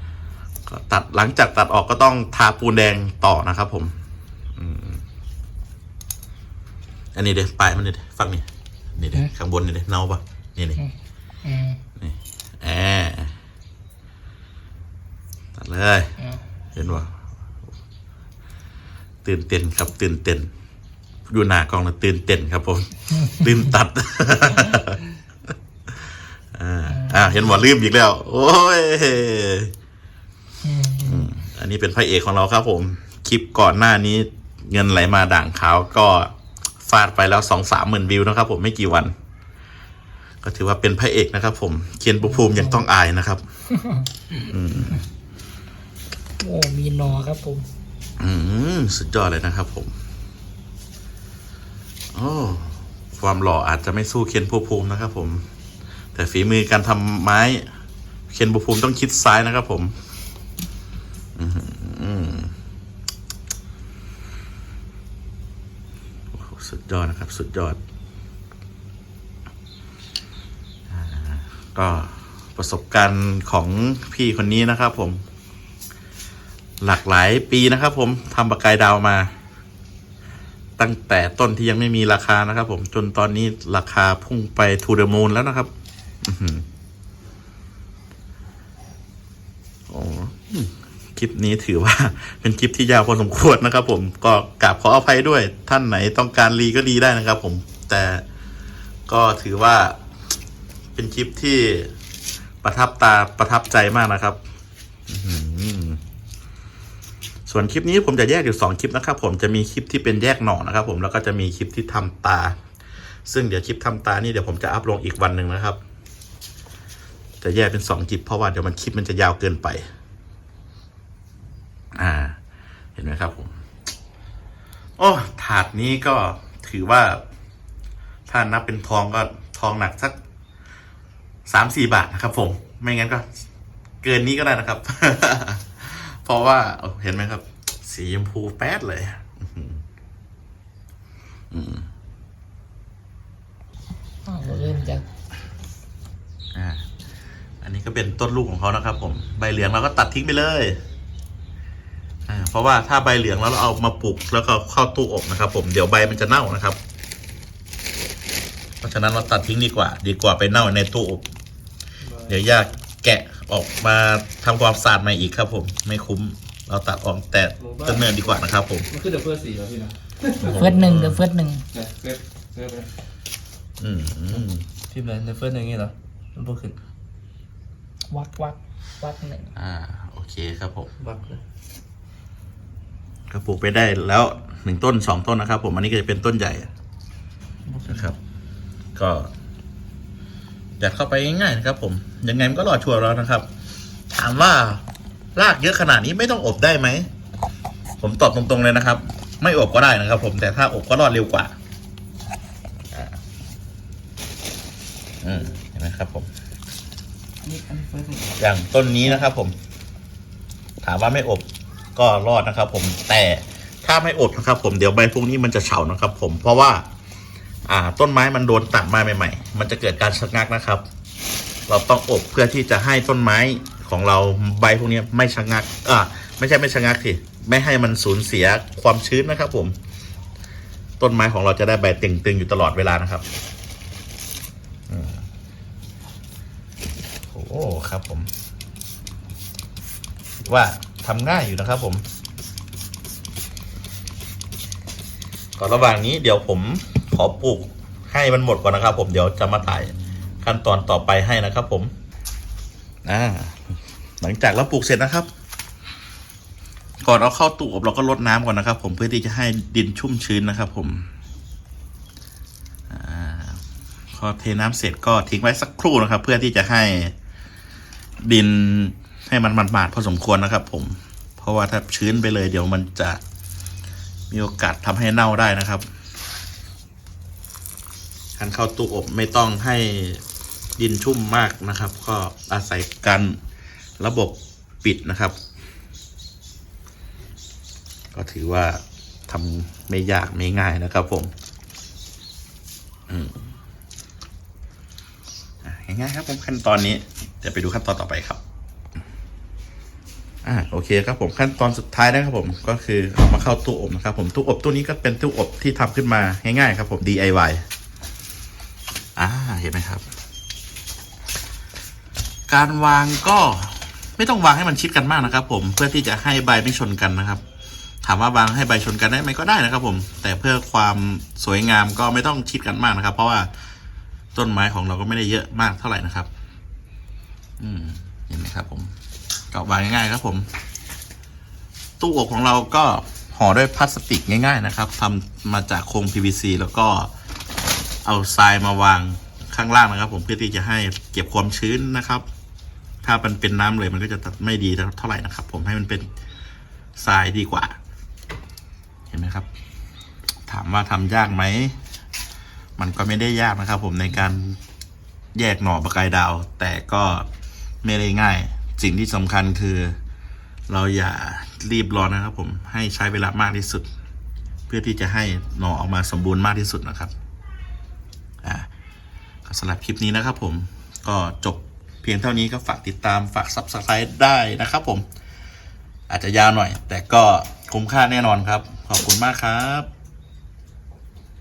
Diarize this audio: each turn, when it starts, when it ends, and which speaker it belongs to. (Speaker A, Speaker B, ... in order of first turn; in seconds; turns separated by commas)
Speaker A: 0.7-4.0, Speaker A: 4.6-5.0, Speaker A: 7.1-10.8, Speaker B: 11.4-11.8, Speaker A: 12.0-13.3, Speaker A: 15.6-16.1, Speaker A: 16.7-17.1, Speaker A: 19.2-20.5, Speaker A: 21.3-25.0, Speaker A: 26.5-29.7, Speaker B: 26.9-27.6, Speaker B: 30.6-31.3, Speaker A: 31.0-39.1, Speaker A: 40.4-43.4, Speaker B: 42.3-42.8, Speaker B: 43.7-44.1, Speaker A: 44.5-45.0, Speaker B: 46.4-47.7, Speaker A: 48.2-49.9, Speaker A: 52.1-55.4, Speaker A: 56.1-57.7, Speaker A: 58.3-60.0, Speaker A: 61.4-62.5, Speaker A: 66.3-67.8, Speaker A: 70.9-75.2, Speaker A: 76.8-79.3, Speaker A: 80.8-85.7, Speaker A: 86.2-86.6, Speaker A: 89.9-98.2, Speaker A: 99.1-100.0, Speaker A: 100.9-101.9, Speaker A: 102.6-104.4, Speaker A: 105.1-106.0, Speaker A: 107.5-112.6, Speaker A: 113.3-115.8, Speaker A: 117.4-119.9, Speaker A: 121.9-122.4, Speaker A: 123.0-123.5, Speaker A: 125.0-127.2, Speaker A: 128.3-130.2, Speaker A: 131.5-133.3, Speaker A: 134.0-139.8, Speaker A: 141.5-141.9, Speaker B: 144.2-145.1, Speaker A: 146.5-146.8, Speaker A: 147.6-150.8, Speaker A: 152.3-156.8, Speaker A: 158.8-161.2, Speaker C: 162.0-162.3, Speaker A: 162.3-168.9, Speaker C: 167.6-170.9, Speaker A: 170.4-171.2, Speaker B: 170.5-171.6, Speaker C: 171.7-172.9, Speaker A: 173.8-174.6, Speaker C: 174.3-176.8, Speaker B: 178.1-179.5, Speaker A: 179.6-180.9, Speaker C: 181.0-181.4, Speaker A: 183.3-186.7, Speaker C: 187.7-188.1, Speaker A: 187.9-188.2, Speaker A: 188.9-189.3, Speaker A: 190.8-193.5, Speaker A: 194.1-194.8, Speaker A: 195.3-197.1, Speaker A: 198.0-201.5, Speaker A: 202.9-203.2, Speaker A: 205.2-206.3, Speaker C: 207.4-208.4, Speaker A: 208.4-209.6, Speaker C: 209.0-209.3, Speaker A: 210.8-216.8, Speaker A: 217.7-220.8, Speaker A: 221.7-229.7, Speaker A: 231.0-233.2, Speaker A: 234.9-235.2, Speaker A: 237.3-238.3, Speaker A: 240.4-242.0, Speaker A: 245.6-251.9, Speaker A: 253.1-255.3, Speaker A: 257.0-261.1, Speaker A: 262.9-263.6, Speaker A: 264.1-267.1, Speaker A: 268.2-273.2, Speaker A: 274.3-275.9, Speaker A: 278.4-280.2, Speaker A: 280.8-283.4, Speaker A: 284.0-285.4, Speaker A: 288.1-291.3, Speaker A: 293.1-293.4, Speaker A: 295.6-298.4, Speaker A: 300.4-307.6, Speaker A: 309.1-310.1, Speaker A: 312.5-317.4, Speaker A: 318.0-323.5, Speaker A: 324.3-326.3, Speaker A: 327.6-328.9, Speaker A: 329.5-330.5, Speaker A: 332.0-337.1, Speaker A: 338.0-342.2, Speaker A: 343.0-346.1, Speaker A: 346.9-347.8, Speaker A: 349.1-349.5, Speaker A: 350.5-351.8, Speaker A: 352.8-354.6, Speaker A: 355.3-357.3, Speaker A: 357.8-360.0, Speaker A: 360.7-363.9, Speaker A: 364.7-367.1, Speaker A: 368.4-368.7, Speaker A: 369.4-375.0, Speaker A: 376.1-379.9